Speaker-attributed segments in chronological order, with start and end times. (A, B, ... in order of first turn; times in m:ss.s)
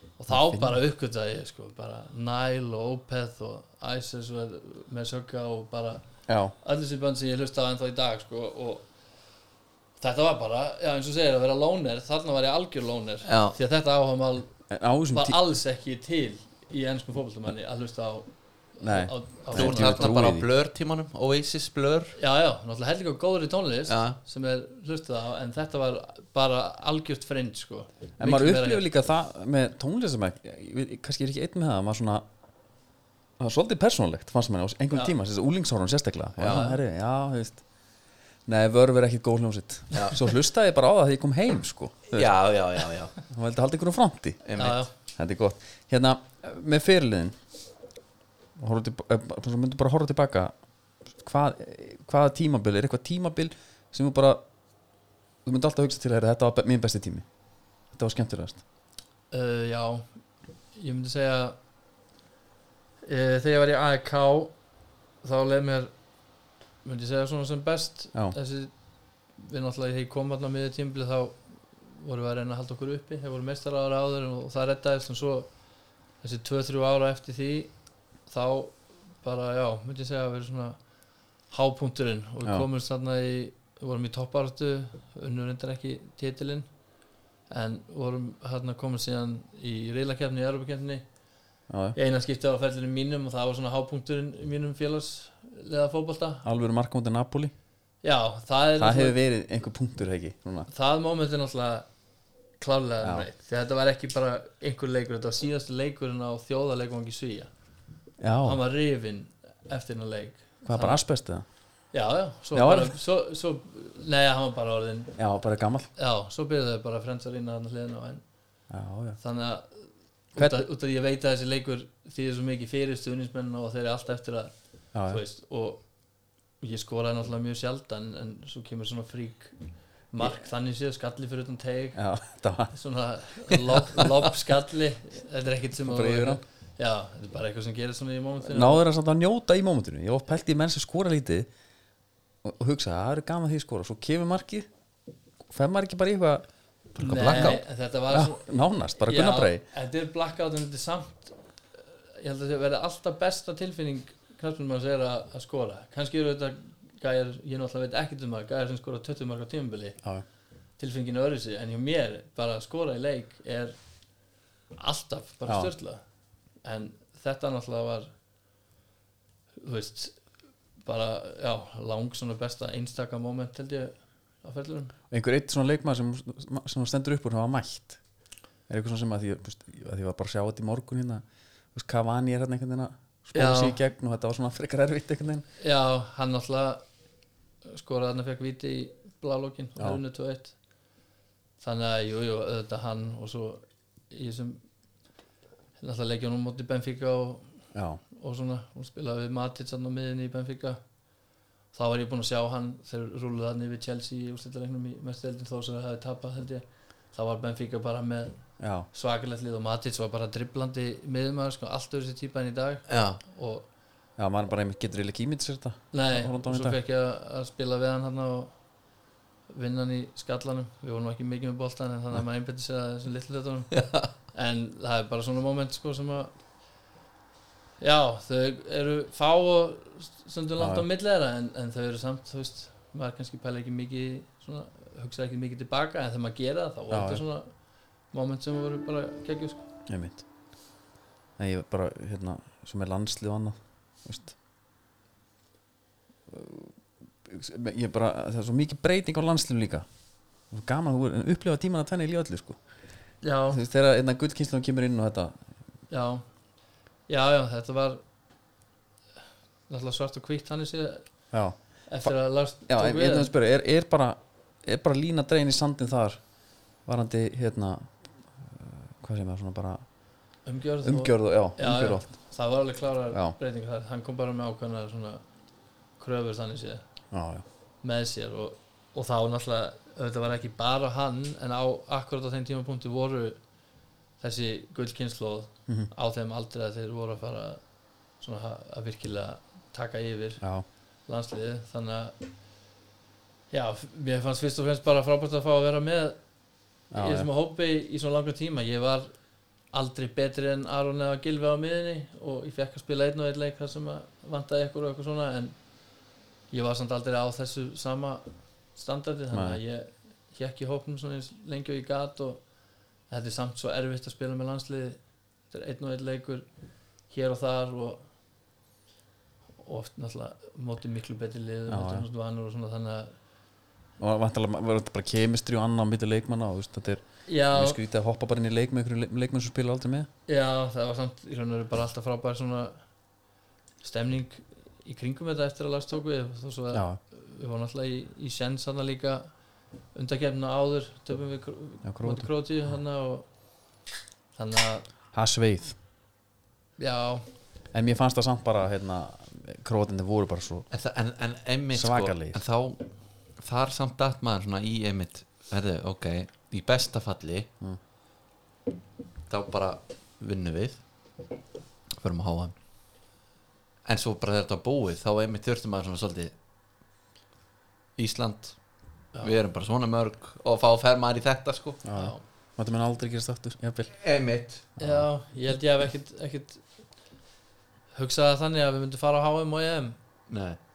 0:00.2-0:06.0 A
0:00.3-0:00.8 B
0:06.3-0:06.5 B
0:06.6-0:08.9 A
0:10.0-0:20.2 A
0:13.2-0:13.6 C
0:14.7-0:15.4 B
0:18.8-0:20.5 B
0:19.6-0:22.2 C
0:22.2-0:28.8 A
0:23.9-0:24.2 C
0:28.2-0:32.2 B
0:33.4-0:37.7 B
0:36.5-0:36.8 A
0:38.4-0:47.4 B
0:39.9-0:40.2 C
0:42.1-0:43.1 C
0:44.4-0:44.8 C
0:44.6-0:44.9 A
0:48.6-0:54.4 B
0:55.4-0:57.3 B
0:57.9-0:58.6 B
0:59.3-1:01.6 A
1:03.0-1:04.6 A
1:05.2-1:06.0 A
1:06.8-1:26.8 A
1:27.5-1:31.1 A
1:31.7-1:32.0 B
1:32.0-1:36.4 A
1:36.4-1:37.5 B
1:38.0-1:39.2 A
1:38.8-1:40.7 B
1:40.7-1:41.9 A
1:42.6-1:47.5 A
1:43.0-1:43.3 B
1:48.2-1:48.6 B
1:48.4-1:51.0 A
1:50.7-1:51.4 B
1:51.9-1:55.2 A
1:52.5-1:53.0 B
1:55.2-1:55.9 B
1:56.0-1:58.2 A
1:58.7-1:59.2 B
1:59.2-2:06.0 A
2:04.9-2:05.2 B
2:06.6-2:09.6 A
2:10.1-2:12.0 A
2:10.2-2:10.5 B
2:12.0-2:12.7 B
2:12.7-2:18.8 A
2:15.8-2:16.4 B
2:18.5-2:21.5 B
2:22.4-2:24.7 B
2:25.5-2:26.5 B
2:27.0-2:27.6 C
2:27.0-2:31.4 A
2:27.2-2:29.6 B
2:31.9-2:40.0 A
2:40.8-2:44.2 A
2:44.7-2:46.0 A
2:45.5-2:45.7 B
2:46.6-2:48.1 A
2:49.6-2:50.2 A
2:50.8-2:54.9 A
2:55.1-2:58.0 B
2:58.7-3:05.4 B
3:03.3-3:03.8 A
3:05.6-3:06.8 A
3:07.7-3:10.6 A
3:11.6-3:14.6 A
3:15.8-3:20.8 A
3:17.7-3:18.0 B
3:21.7-3:33.7 A
3:28.6-3:28.9 B
3:32.9-3:33.2 C
3:34.2-3:36.8 B
3:35.9-3:38.7 A
3:39.5-3:46.3 A
3:43.8-3:44.1 C
3:47.8-3:59.6 A
3:50.6-3:50.9 B
3:56.9-3:57.2 B
3:59.9-4:00.2 B
4:01.4-4:04.4 B
4:06.3-4:09.9 B
4:10.5-4:12.6 B
4:13.2-4:13.6 A
4:13.5-4:15.4 B
4:15.9-4:16.3 A
4:17.1-4:18.0 A
4:19.7-4:21.3 A
4:21.3-4:30.0 B
4:21.9-4:23.3 A
4:30.4-4:35.3 A
4:30.8-4:32.3 B
4:36.0-4:36.8 A
4:37.1-4:37.4 B
4:37.8-4:43.4 A
4:44.2-4:52.1 A
4:50.4-4:50.7 B
4:53.5-4:56.3 A
4:56.9-4:59.1 A
4:56.9-4:57.3 B
4:59.7-5:05.6 A
5:06.5-5:12.5 A
5:09.3-5:09.6 B
5:13.1-5:16.5 A
5:17.0-5:18.1 A
5:19.6-5:23.2 A
5:21.7-5:22.1 B
5:24.0-5:30.1 B
5:27.3-5:27.8 A
5:30.3-5:32.8 A
5:33.8-5:39.3 A
5:36.7-5:37.0 B
5:39.9-5:43.3 A
5:41.8-5:42.7 B
5:44.4-5:44.9 A
5:45.1-5:45.8 B
5:46.8-5:47.3 A
5:47.7-5:50.7 B
5:50.7-5:57.5 C
5:51.7-5:52.4 B
5:59.3-6:00.9 C
6:01.9-6:02.6 C
6:03.8-6:06.3 C
6:08.0-6:11.8 C
6:11.8-6:14.0 B
6:11.9-6:12.2 A
6:14.0-6:14.7 C
6:14.8-6:15.1 B
6:14.8-6:16.7 A
6:17.9-6:20.0 A
6:20.3-6:20.6 C